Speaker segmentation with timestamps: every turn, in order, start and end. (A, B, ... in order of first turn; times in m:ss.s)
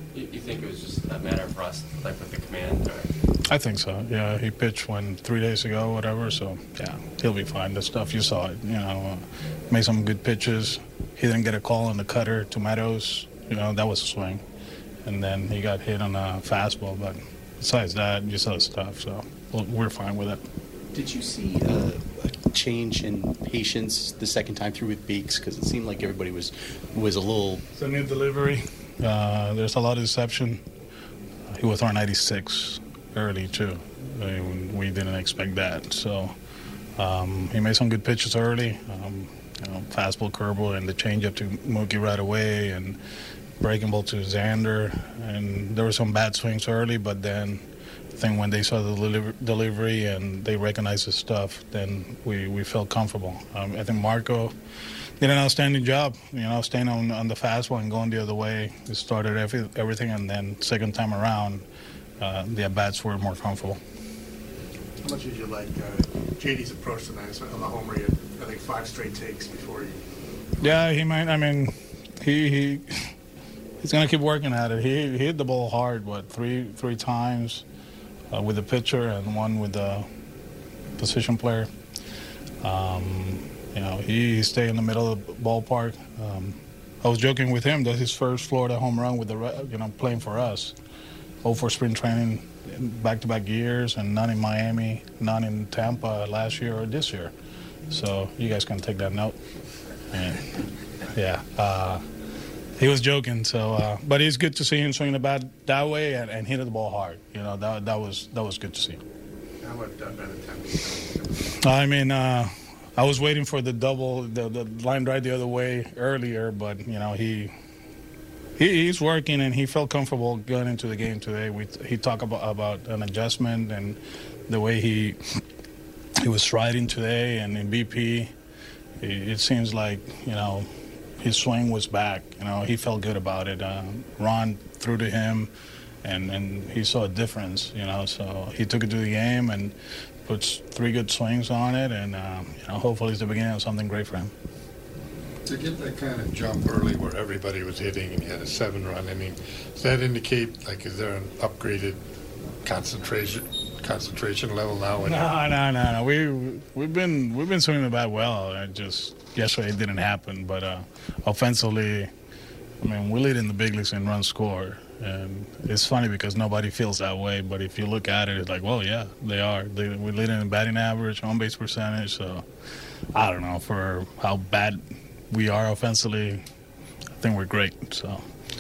0:00.1-0:03.1 A
0:03.5-0:14.4 B
0:15.0-0:20.4 B
0:20.9-0:27.6 C
0:27.8-0:30.6 B
0:31.5-0:36.4 B
0:37.0-0:43.0 B
0:43.6-0:54.6 B
0:55.2-1:01.7 B
1:02.2-1:03.8 B
1:05.0-1:10.1 D
1:10.6-1:13.1 B
1:13.8-1:17.6 B
1:18.3-1:20.1 B
1:21.0-1:21.7 B
1:22.6-1:30.8 B
1:31.4-1:37.3 B
1:37.9-1:39.4 B
1:40.1-1:42.0 B
1:42.8-1:49.0 B
1:49.6-1:51.6 D
1:51.6-1:57.5 B
1:58.6-2:05.2 B
2:06.2-2:08.3 B
2:09.0-2:10.7 B
2:11.2-2:15.5 B
2:16.0-2:24.3 B
2:25.5-2:32.0 E
2:32.6-2:35.3 E
2:35.1-2:42.1 B
2:42.8-2:52.5 B
2:53.1-2:56.4 B
2:57.2-2:58.2 B